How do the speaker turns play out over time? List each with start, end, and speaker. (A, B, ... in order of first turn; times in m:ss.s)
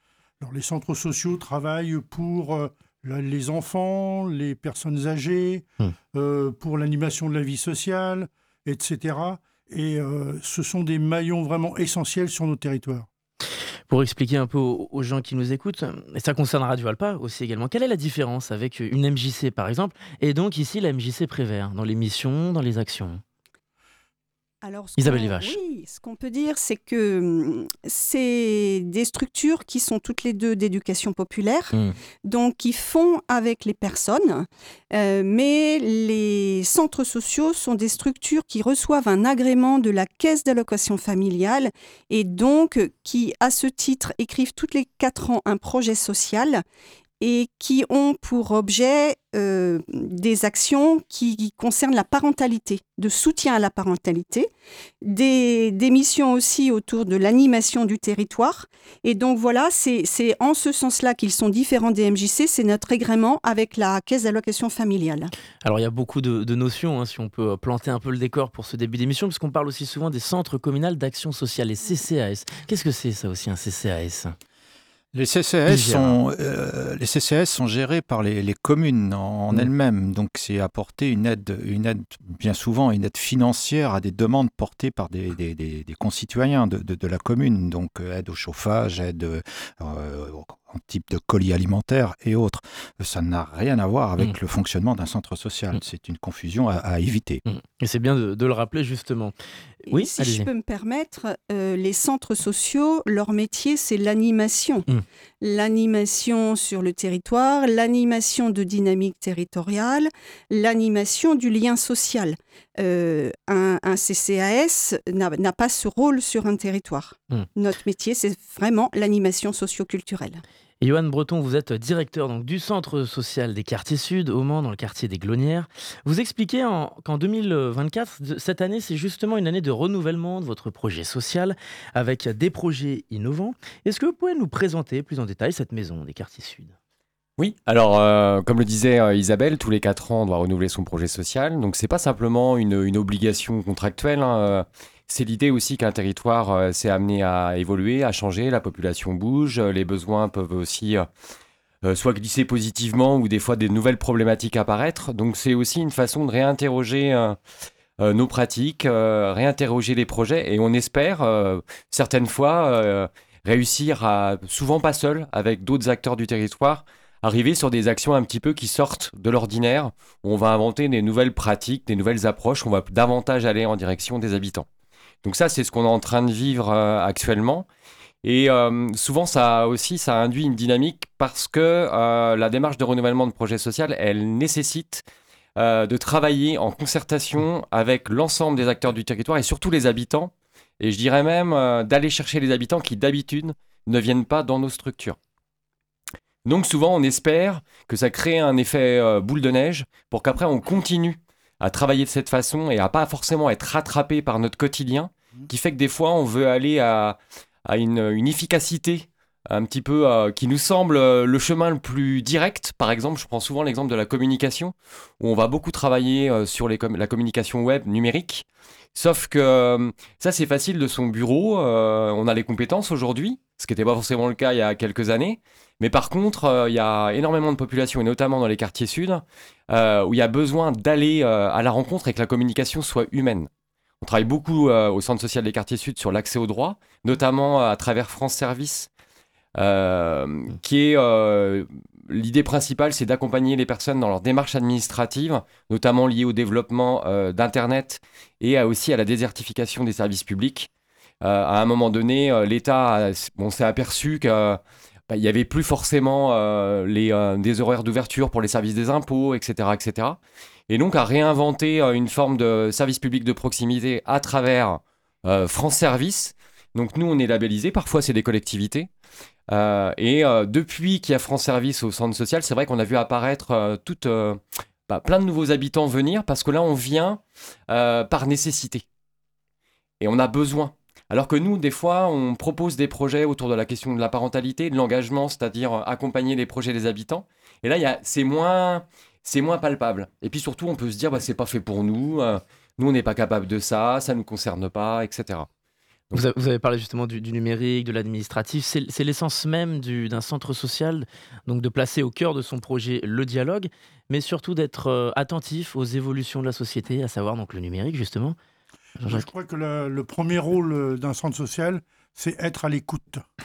0:00.4-0:13.1 A
0:13.9-0:23.2 B
0:24.6-0:46.6 C
0:25.0-0:25.6 B
0:47.2-0:54.5 C
0:55.0-1:05.3 C
1:05.6-1:14.4 B
1:15.1-1:37.4 D
1:15.7-1:16.2 B
1:37.4-1:39.3 B
1:39.9-1:40.5 B
1:39.9-1:44.8 C
1:45.4-2:00.4 C
2:00.8-2:16.7 B
2:17.4-2:31.1 E
2:31.8-2:37.4 E
2:38.0-2:54.6 E
2:55.2-2:57.7 E
2:58.2-3:05.0 E
3:05.6-3:15.2 E
3:16.4-3:53.5 E
3:54.0-3:58.9 E
3:59.6-4:10.7 E
4:11.2-4:20.2 E
4:20.7-4:28.9 E
4:29.5-4:38.8 E
4:40.0-4:55.5 E
4:56.1-5:08.4 B
5:09.0-5:09.3 B
5:09.0-5:13.2 A